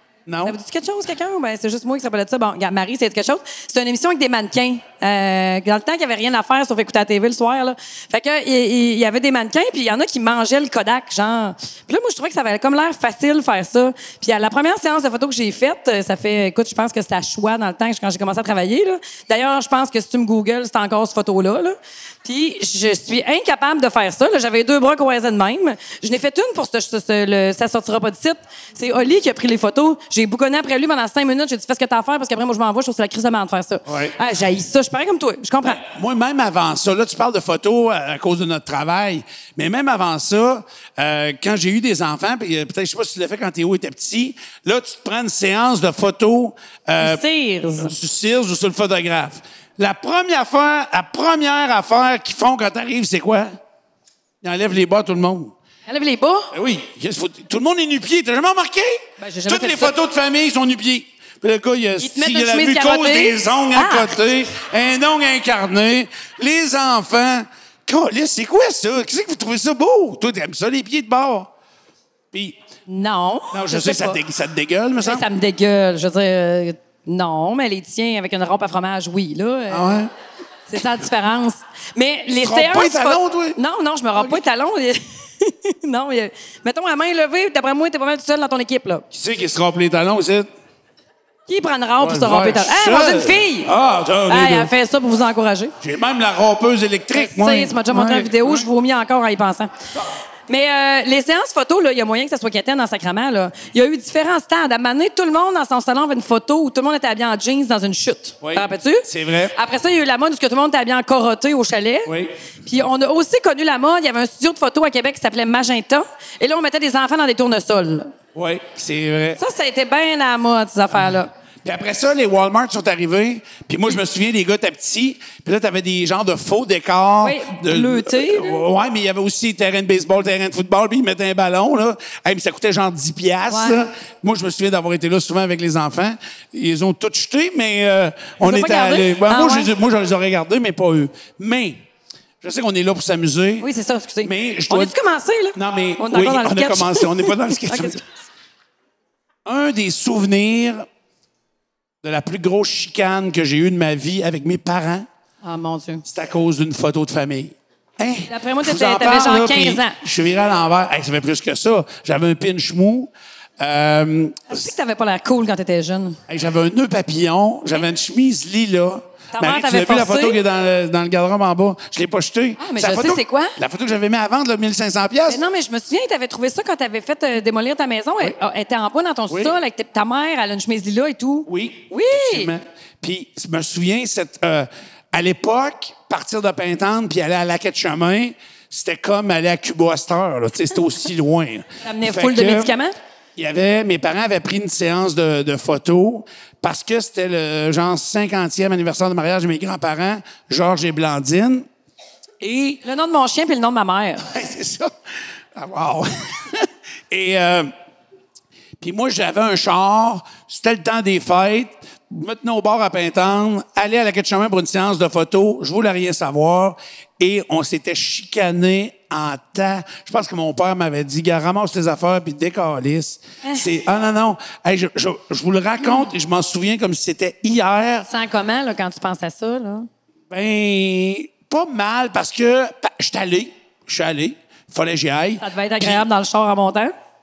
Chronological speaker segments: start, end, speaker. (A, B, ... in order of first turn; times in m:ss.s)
0:00.2-0:00.6 A
0:00.4-0:35.8 B
0:33.9-0:34.1 A
0:35.7-0:47.2 A
0:47.0-0:47.9 B
0:47.8-0:53.5 A
0:54.4-0:55.5 A
0:55.9-0:56.5 B
0:56.5-1:11.5 A
0:59.2-0:59.9 B
1:02.0-1:04.1 B
1:12.3-1:12.6 A
1:12.9-1:14.2 B
1:13.5-1:15.2 A
1:15.0-1:19.9 B
1:19.7-1:20.1 A
1:20.7-1:29.0 B
1:22.4-1:23.6 A
1:24.1-1:24.4 A
1:29.1-1:30.5 A
1:31.5-1:33.7 B
1:32.0-1:34.7 A
1:34.3-1:35.7 B
1:35.8-1:38.7 A
1:37.1-1:39.7 B
1:40.5-1:52.1 B
1:48.4-1:49.5 A
1:52.1-1:52.3 A
1:52.6-1:58.1 B
1:58.3-1:59.4 A
1:59.4-2:01.3 B
2:01.6-2:21.8 A
2:07.2-2:08.6 B
2:13.5-2:13.8 B
2:18.4-2:19.7 B
2:22.4-2:23.7 A
2:23.6-2:28.0 B
2:24.2-2:24.9 A
2:25.5-2:28.0 A
2:29.4-2:30.8 A
2:32.0-2:35.0 A
2:35.4-2:36.0 B
2:36.0-2:44.6 A
2:38.3-2:40.0 B
2:44.5-2:46.2 B
2:46.3-2:55.4 A
2:49.3-2:50.4 B
2:52.6-2:53.6 B
2:55.3-3:02.5 B
2:59.3-2:59.5 A
3:01.5-3:12.7 A
3:11.8-3:12.9 B
3:13.4-3:21.7 A
3:22.4-3:22.8 A
3:22.8-3:24.2 B
3:24.2-3:24.9 A
3:25.5-3:27.7 A
3:28.8-3:48.1 A
3:48.1-3:49.9 B
3:50.3-3:56.0 A
3:55.4-3:56.9 B